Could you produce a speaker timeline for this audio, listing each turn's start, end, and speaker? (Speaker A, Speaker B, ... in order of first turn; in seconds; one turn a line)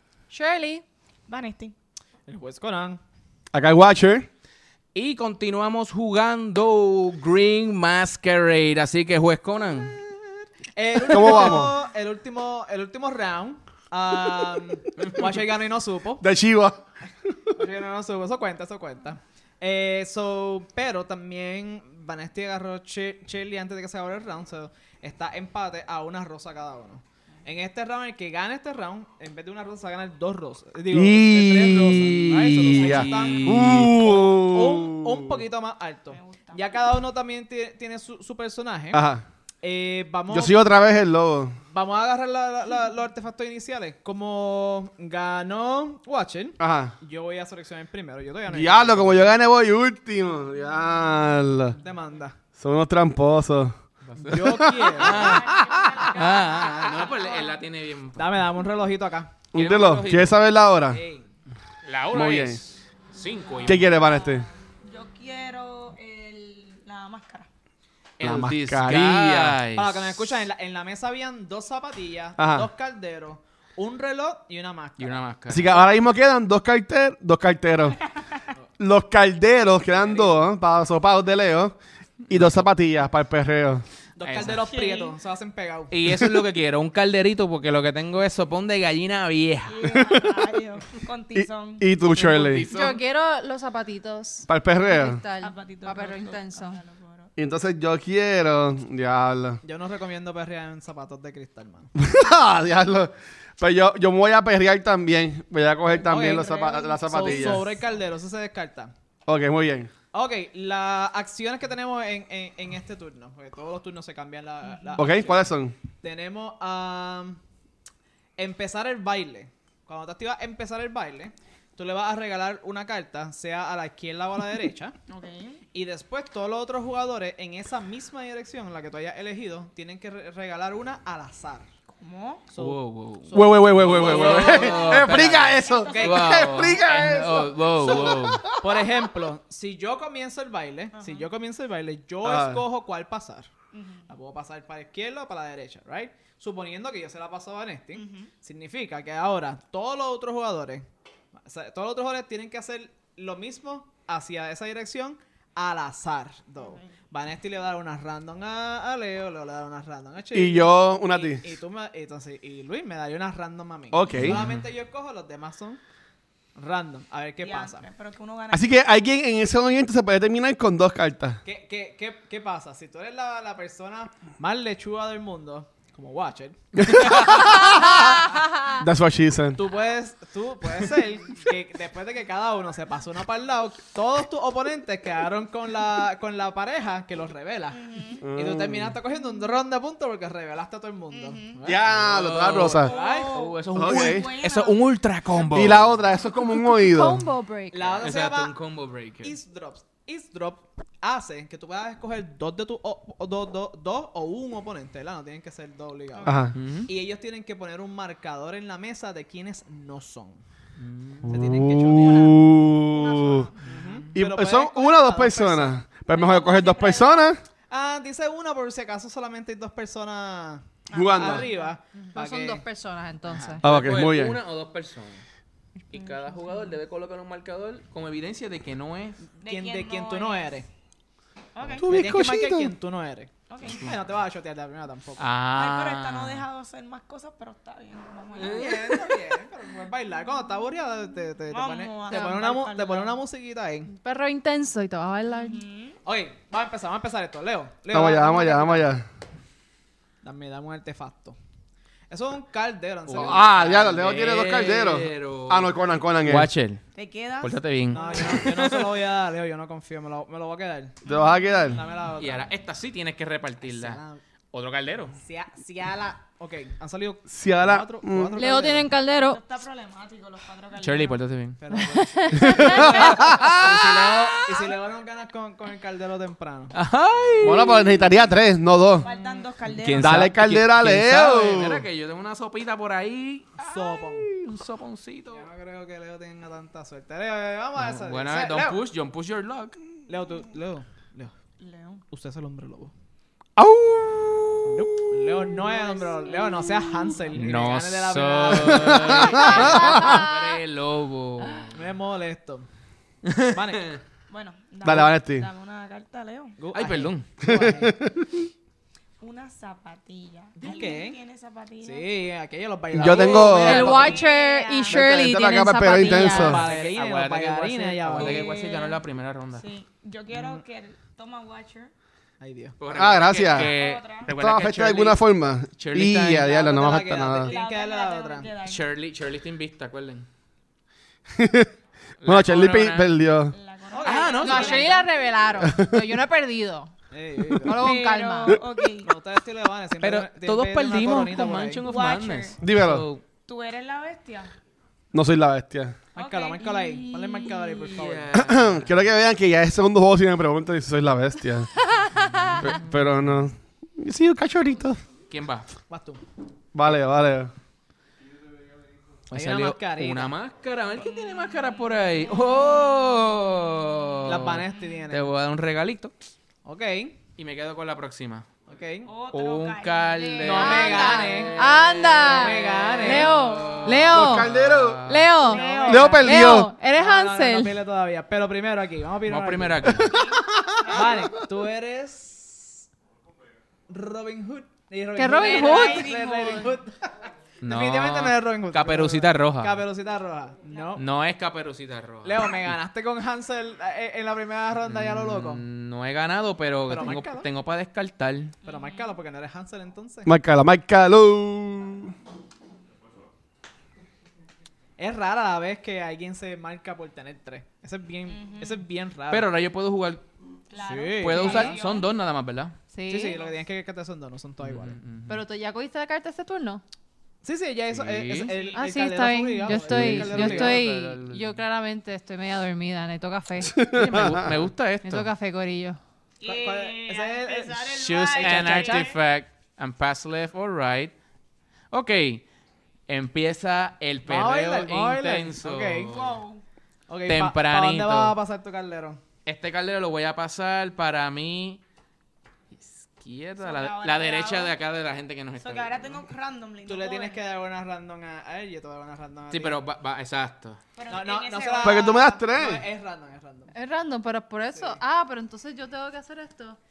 Speaker A: 0.3-0.8
Speaker B: 1.3-1.8
Speaker C: 2.3-3.0
Speaker D: 3.5-4.3
Speaker E: 4.9-10.0
Speaker C: 10.8-16.2
Speaker D: 11.1-11.7
Speaker D: 16.2-16.9
Speaker C: 17.6-39.0
Speaker D: 30.9-35.4
Speaker E: 32.5-33.9
Speaker B: 32.8-33.4
Speaker B: 36.1-36.8
Speaker D: 38.9-39.2
Speaker C: 39.6-40.6
Speaker D: 40.3-41.6
Speaker C: 41.7-49.3
Speaker D: 46.6-47.0
Speaker D: 48.5-51.8
Speaker C: 51.8-52.4
Speaker D: 52.6-53.8
Speaker E: 54.0-58.4
Speaker C: 54.2-55.4
Speaker D: 54.3-55.4
Speaker B: 55.0-57.6
Speaker C: 56.3-57.1
Speaker C: 58.1-59.4
Speaker D: 59.5-61.0
Speaker E: 59.5-60.4
Speaker C: 60.9-61.3
Speaker E: 61.8-63.9
Speaker D: 62.1-62.6
Speaker B: 63.5-67.5
Speaker D: 63.6-64.5
Speaker E: 68.2-70.2
Speaker D: 68.2-69.6
Speaker C: 69.7-75.2
Speaker D: 72.4-72.7
Speaker E: 75.0-75.7
Speaker D: 75.5-78.0
Speaker D: 78.8-81.8
Speaker C: 79.9-80.5
Speaker D: 82.3-83.8
Speaker E: 82.3-82.7
Speaker C: 84.2-85.9
Speaker E: 84.2-84.7
Speaker B: 84.4-85.2
Speaker E: 85.9-89.9
Speaker B: 89.7-91.9
Speaker D: 89.9-90.5
Speaker D: 91.3-92.7
Speaker E: 92.1-93.0
Speaker A: 92.7-96.8
Speaker D: 94.5-95.2
Speaker B: 95.4-97.3
Speaker D: 97.4-99.6
Speaker C: 99.6-101.9
Speaker D: 102.0-107.6
Speaker C: 106.0-108.9
Speaker B: 106.1-107.8
Speaker D: 109.3-109.9
Speaker C: 110.1-115.5
Speaker D: 115.0-115.8
Speaker C: 116.0-117.4
Speaker C: 118.4-125.0
Speaker B: 125.1-125.6
Speaker C: 125.7-131.7
Speaker B: 131.9-132.4
Speaker C: 132.5-135.1
Speaker E: 132.6-138.4
Speaker D: 133.3-139.0
Speaker B: 135.5-136.1
Speaker C: 135.8-136.5
Speaker C: 137.8-143.5
Speaker B: 140.9-141.3
Speaker D: 142.2-142.6
Speaker B: 143.7-144.1
Speaker C: 144.1-165.8
Speaker B: 147.9-148.3
Speaker B: 156.6-156.9
Speaker D: 160.3-161.5
Speaker D: 163.9-164.4
Speaker E: 164.1-164.6
Speaker C: 166.6-167.8
Speaker B: 167.4-168.7
Speaker D: 168.5-171.4
Speaker C: 171.4-177.3
Speaker D: 176.8-178.2
Speaker A: 177.6-178.8
Speaker D: 178.7-179.6
Speaker C: 179.6-187.8
Speaker B: 187.7-188.2
Speaker D: 188.2-188.9
Speaker C: 188.3-192.0
Speaker B: 191.1-191.6
Speaker D: 191.7-192.9
Speaker E: 191.9-195.9
Speaker B: 192.7-195.8
Speaker C: 192.8-193.5
Speaker D: 193.8-194.3
Speaker D: 195.5-197.2
Speaker A: 196.3-198.0
Speaker C: 197.7-198.6
Speaker E: 198.0-199.4
Speaker C: 199.2-210.4
Speaker B: 206.1-206.5
Speaker D: 206.2-206.6
Speaker E: 206.5-206.9
Speaker E: 210.8-211.3
Speaker C: 211.2-212.4
Speaker D: 211.2-213.5
Speaker B: 211.9-213.7
Speaker C: 213.6-215.8
Speaker D: 214.2-217.4
Speaker B: 216.1-217.3
Speaker C: 217.7-222.7
Speaker B: 220.9-221.8
Speaker D: 220.9-221.5
Speaker A: 222.1-223.6
Speaker C: 223.3-223.6
Speaker D: 223.6-224.4
Speaker E: 223.6-225.2
Speaker E: 225.9-229.2
Speaker C: 229.4-230.7
Speaker B: 229.4-230.6
Speaker B: 231.6-231.9
Speaker D: 231.8-232.7
Speaker C: 231.8-235.3
Speaker B: 233.5-233.9
Speaker E: 235.2-236.4
Speaker B: 235.6-239.0
Speaker E: 238.3-239.2
Speaker C: 238.4-243.9
Speaker B: 241.5-243.2
Speaker A: 242.1-242.4
Speaker A: 243.9-245.6
Speaker B: 245.3-246.0
Speaker C: 246.1-248.9
Speaker D: 247.9-249.1
Speaker C: 250.2-251.4
Speaker C: 252.1-254.1
Speaker E: 253.1-255.7
Speaker D: 253.2-256.5
Speaker E: 256.2-256.9
Speaker B: 256.9-258.4
Speaker E: 257.4-258.9
Speaker C: 257.9-261.0
Speaker D: 261.1-261.8
Speaker B: 261.1-262.0
Speaker C: 261.7-262.5
Speaker E: 262.2-264.0
Speaker C: 263.6-264.2
Speaker E: 264.5-265.2
Speaker C: 265.2-268.9
Speaker D: 267.3-268.4
Speaker A: 268.3-269.4
Speaker B: 269.2-271.2
Speaker E: 270.8-271.6
Speaker C: 271.6-276.8
Speaker A: 271.7-273.1
Speaker D: 272.5-273.5
Speaker E: 272.7-274.6
Speaker B: 272.7-273.7
Speaker E: 276.7-277.9
Speaker D: 277.4-279.1
Speaker B: 279.0-280.3
Speaker E: 279.1-285.4
Speaker D: 279.9-281.9
Speaker C: 283.6-284.3
Speaker C: 285.3-288.8
Speaker E: 287.8-289.8
Speaker C: 290.1-291.3
Speaker B: 291.6-292.0
Speaker C: 292.1-292.9
Speaker D: 293.6-295.4
Speaker C: 294.6-299.8
Speaker B: 295.6-296.9
Speaker E: 297.3-301.8
Speaker D: 298.5-300.2
Speaker A: 299.5-300.6
Speaker C: 301.7-302.7
Speaker E: 303.2-304.0
Speaker C: 303.5-303.9
Speaker B: 304.3-306.6
Speaker D: 304.8-305.5
Speaker C: 306.6-308.0
Speaker E: 306.7-307.3
Speaker D: 307.4-308.5
Speaker B: 309.2-312.1
Speaker C: 310.6-311.2
Speaker C: 311.8-314.2
Speaker D: 312.9-313.9
Speaker B: 313.1-315.1
Speaker A: 313.4-316.6
Speaker D: 314.9-316.6
Speaker C: 316.1-318.5
Speaker E: 316.2-319.7
Speaker B: 318.1-319.0
Speaker B: 319.5-321.9
Speaker C: 320.3-320.6
Speaker C: 322.4-322.8
Speaker E: 322.8-325.2
Speaker D: 322.9-323.7
Speaker B: 323.4-324.3
Speaker D: 324.3-327.6
Speaker E: 325.8-326.5
Speaker C: 326.4-328.5
Speaker B: 327.4-328.9
Speaker E: 328.6-330.3
Speaker D: 331.3-331.7
Speaker E: 332.2-333.1
Speaker D: 332.2-333.6
Speaker B: 333.5-335.1
Speaker C: 333.9-335.0
Speaker E: 334.0-334.9
Speaker A: 334.4-336.9
Speaker D: 335.7-336.0
Speaker C: 337.1-337.8
Speaker A: 337.6-338.6
Speaker B: 337.7-339.1
Speaker C: 339.0-341.9
Speaker E: 340.0-343.2
Speaker B: 341.9-342.6
Speaker D: 342.6-343.1
Speaker B: 343.4-344.5
Speaker D: 345.1-346.0
Speaker C: 346.1-348.3
Speaker B: 346.2-346.7
Speaker E: 346.6-349.0
Speaker D: 348.3-351.7
Speaker A: 351.9-352.6
Speaker D: 352.5-355.0
Speaker E: 355.3-355.7
Speaker C: 355.9-356.2
Speaker D: 356.7-357.5
Speaker E: 359.3-366.1
Speaker C: 359.3-360.3
Speaker B: 361.0-363.2
Speaker C: 364.2-365.3
Speaker B: 364.7-365.0
Speaker C: 366.6-367.2
Speaker E: 367.4-368.5
Speaker C: 368.7-369.1
Speaker B: 369.1-371.1
Speaker E: 369.3-375.4
Speaker A: 370.2-374.5
Speaker C: 370.4-373.4
Speaker D: 374.1-375.1
Speaker A: 375.0-377.8
Speaker B: 375.4-376.3
Speaker C: 375.4-380.1
Speaker D: 375.9-376.7
Speaker E: 379.3-380.2
Speaker D: 379.9-381.1
Speaker B: 380.1-381.3
Speaker C: 380.9-382.9
Speaker C: 383.9-391.1
Speaker A: 385.2-386.2
Speaker B: 385.4-386.8
Speaker E: 387.6-389.8
Speaker E: 391.0-392.7
Speaker C: 392.2-395.6
Speaker E: 394.9-398.6
Speaker C: 396.9-397.5
Speaker B: 398.6-399.2
Speaker C: 398.6-400.3
Speaker D: 400.2-402.1
Speaker C: 405.0-409.5
Speaker B: 408.3-408.8
Speaker E: 409.3-410.2
Speaker B: 410.7-412.1
Speaker C: 410.8-411.8
Speaker E: 411.2-412.8
Speaker A: 412.9-413.4
Speaker C: 413.1-415.0
Speaker E: 414.6-415.4
Speaker A: 415.3-416.8
Speaker C: 417.4-420.9
Speaker E: 417.9-418.5
Speaker B: 418.5-418.8
Speaker A: 418.7-423.8
Speaker E: 419.9-421.5
Speaker D: 420.1-420.3
Speaker D: 423.7-424.5
Speaker E: 423.8-425.3
Speaker A: 425.0-426.0
Speaker B: 426.4-429.2
Speaker C: 426.4-429.1
Speaker E: 427.9-431.1
Speaker E: 431.9-432.4
Speaker E: 433.1-436.4
Speaker C: 434.2-436.1
Speaker B: 436.1-436.6
Speaker C: 437.1-439.2
Speaker E: 437.3-438.4
Speaker E: 439.5-441.8
Speaker E: 442.7-446.2
Speaker B: 443.6-444.8
Speaker B: 445.6-447.4
Speaker C: 446.9-449.8
Speaker E: 449.5-450.8
Speaker B: 451.0-452.2
Speaker C: 451.1-453.7
Speaker D: 451.8-452.8
Speaker A: 453.8-456.8
Speaker C: 454.7-455.0